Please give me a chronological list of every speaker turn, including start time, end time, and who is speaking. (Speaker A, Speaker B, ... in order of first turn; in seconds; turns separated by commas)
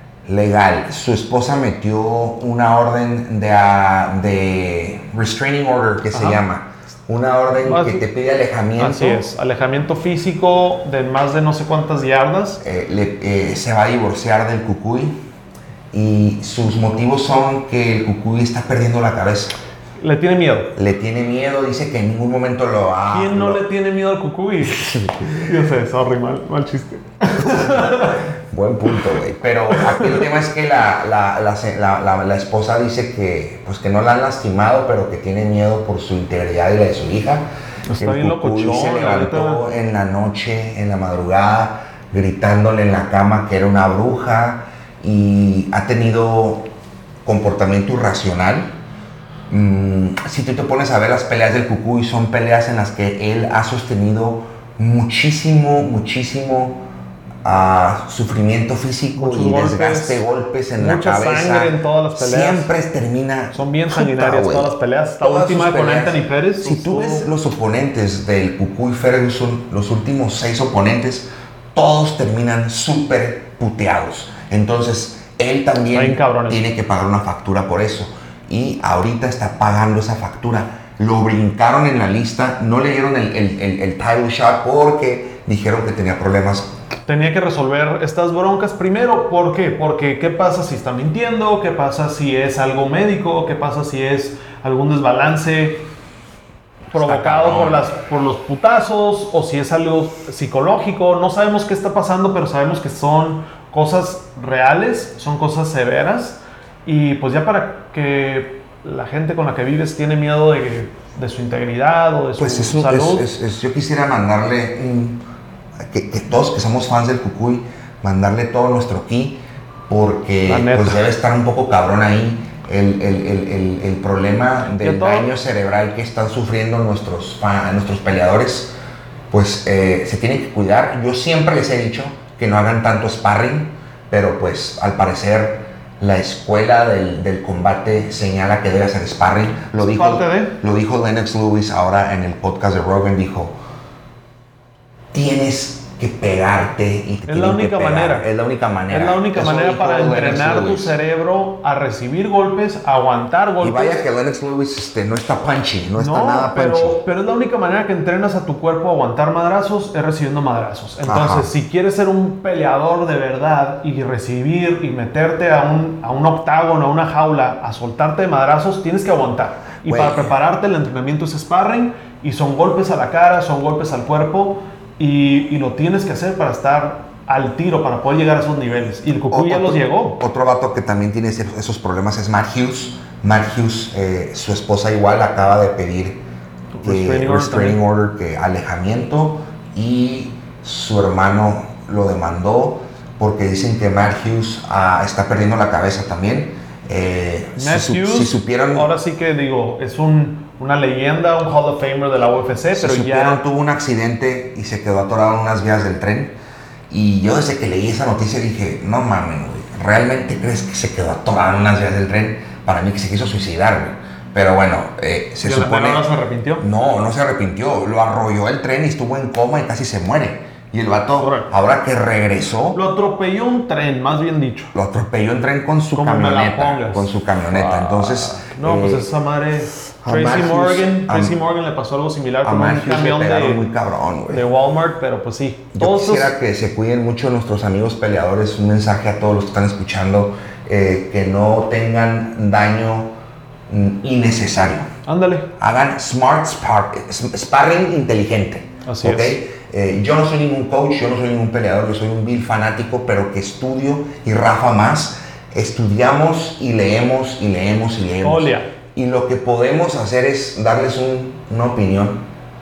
Speaker A: 0.3-9.2, Speaker B: 6.1-6.4, Speaker B: 7.6-8.0, Speaker B: 8.8-12.6, Speaker A: 12.6-15.1, Speaker A: 15.9-19.5, Speaker B: 20.0-20.7, Speaker A: 20.7-23.6, Speaker B: 23.1-28.2, Speaker A: 24.8-25.5, Speaker A: 27.4-46.7, Speaker B: 29.7-30.2, Speaker B: 37.9-39.6, Speaker A: 47.2-48.7, Speaker A: 49.5-56.8, Speaker A: 57.4-86.7, Speaker B: 59.1-60.2, Speaker B: 60.8-62.7, Speaker B: 63.5-67.3, Speaker B: 75.9-76.7, Speaker B: 87.1-95.8, Speaker B: 96.9-113.3, Speaker A: 96.9-97.9, Speaker A: 112.4-115.2, Speaker A: 115.8-128.7, Speaker B: 120.5-121.1, Speaker B: 124.8-125.3, Speaker A: 129.3-143.5, Speaker B: 139.8-140.6, Speaker A: 145.1-150.9, Speaker B: 147.3-148.3, Speaker B: 148.9-154.0, Speaker A: 153.6-157.0, Speaker B: 156.0-180.2, Speaker A: 161.0-161.5, Speaker A: 169.8-170.3, Speaker A: 179.3-186.2, Speaker B: 186.8-187.8, Speaker A: 186.8-198.9, Speaker B: 197.6-203.4, Speaker A: 202.7-206.3, Speaker A: 206.9-216.1, Speaker B: 215.4-216.7, Speaker A: 216.6-222.8, Speaker B: 221.2-221.5, Speaker B: 222.7-224.7, Speaker A: 224.7-229.1, Speaker B: 225.9-233.7, Speaker A: 230.0-231.3, Speaker A: 232.4-234.5, Speaker B: 234.3-236.3, Speaker A: 235.7-243.1, Speaker A: 243.7-244.9, Speaker B: 245.0-245.5, Speaker A: 245.6-262.2, Speaker B: 248.8-249.4, Speaker B: 258.2-258.7